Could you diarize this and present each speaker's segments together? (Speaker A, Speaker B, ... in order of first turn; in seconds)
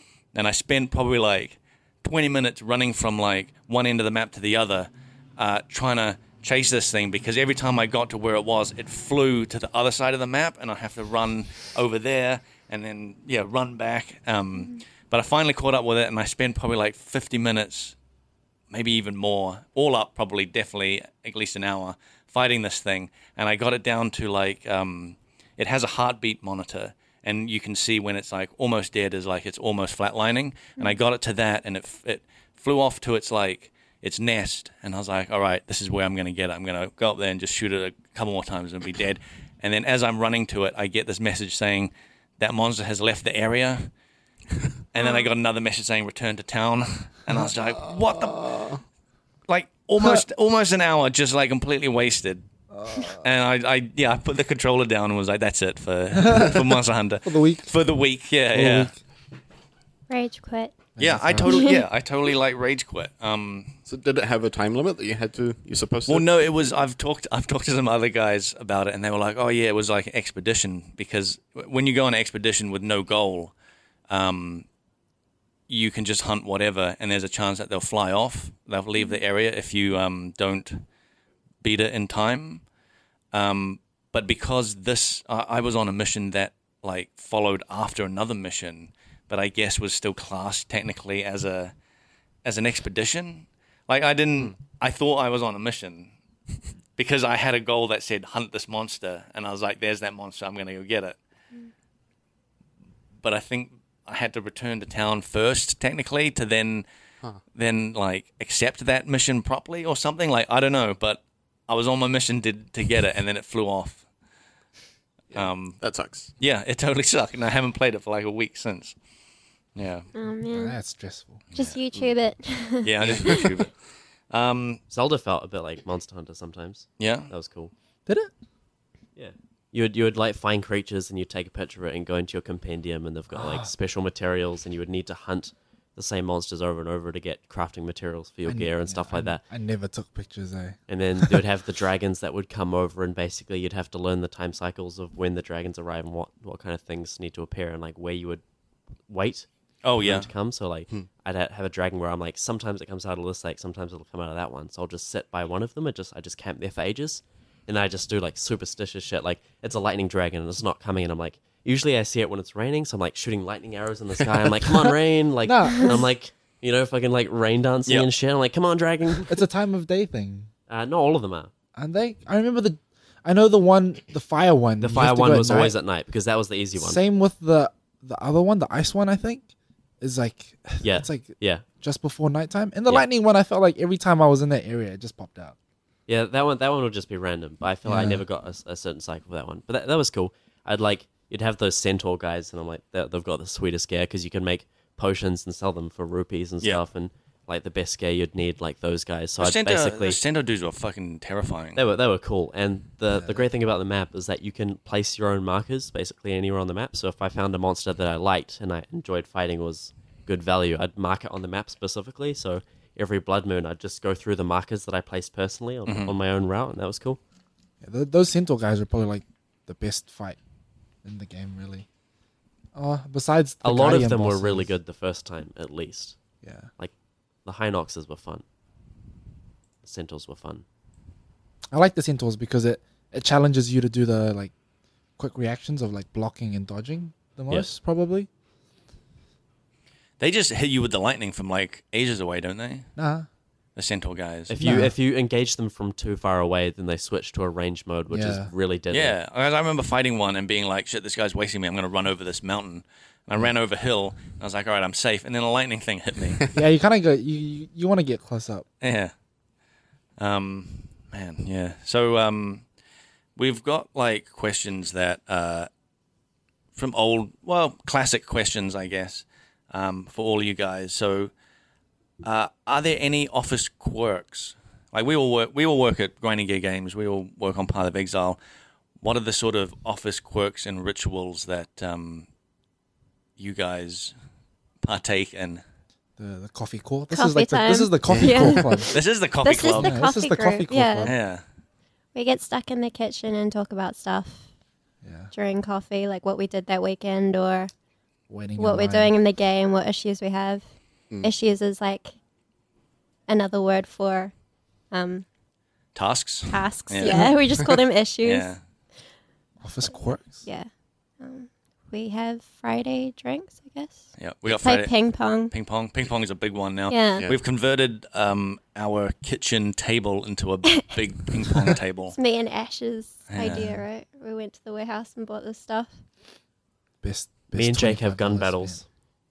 Speaker A: 0.3-17.9, 18.7-43.9, 44.9-48.7, 49.5-52.4, 53.2-58.9, 61.0-63.8, 66.1-73.5, 74.1-74.7, 75.7-80.8, 81.6-82.7, 83.3-91.7, 92.5-96.1, 97.0-101.2, 103.2-106.9, 107.5-114.0, 115.3-115.8, 116.4-119.0, 119.8-120.1, 122.8-123.8, 124.3-124.8, 127.0-127.3, 149.8-150.3, 199.4-201.8, 215.9-216.2, 240.2-242.9, 243.8-244.5, 248.9-256.5, 258.8-259.1, 260.2-262.7, 263.4-265.7, 266.8-271.3, 272.2-278.4, 279.0-282.3, 283.4-284.1, 284.8-285.6, 288.9-290.0, 291.0-291.4, 305.9-307.3, 308.2-308.6, 314.2-322.2, 323.3-323.7
Speaker B: 45.0-45.3, 60.1-61.8, 120.1-120.8, 121.5-123.6, 287.1-291.2, 292.1-294.5, 295.3-297.7, 298.6-300.6, 301.2-302.1, 303.3-304.3, 304.9-305.3, 306.5-308.5, 310.4-310.7, 311.2-315.5, 316.9-317.3, 321.6-325.9
Speaker C: 47.5-48.8, 63.9-66.3, 115.3-116.3, 288.1-288.6
Speaker D: 52.7-53.3, 56.2-56.6, 57.2-57.7, 58.5-59.0, 61.0-61.6, 120.5-121.4, 128.1-128.3, 133.3-133.7, 138.5-141.4, 165.4-166.0, 169.3-170.5, 171.8-175.8, 176.8-179.5, 180.0-185.6, 187.9-188.2, 203.1-203.4, 217.8-220.4, 221.0-221.9, 222.8-224.7, 226.4-226.7, 231.7-234.5, 235.2-238.3, 243.0-243.3, 244.6-244.9, 248.1-248.5, 256.5-258.7, 286.2-288.9, 289.7-291.1, 295.0-295.3, 298.3-299.1, 309.6-310.4, 323.4-323.8, 327.0-328.8
Speaker E: 124.9-127.7, 129.2-139.4, 140.9-148.4, 149.1-149.5, 150.0-169.4, 170.7-171.5, 174.8-177.0, 180.8-181.7, 186.1-200.2, 201.8-217.2, 223.6-226.2, 227.4-228.4, 229.8-230.7, 244.5-249.2, 327.5-328.8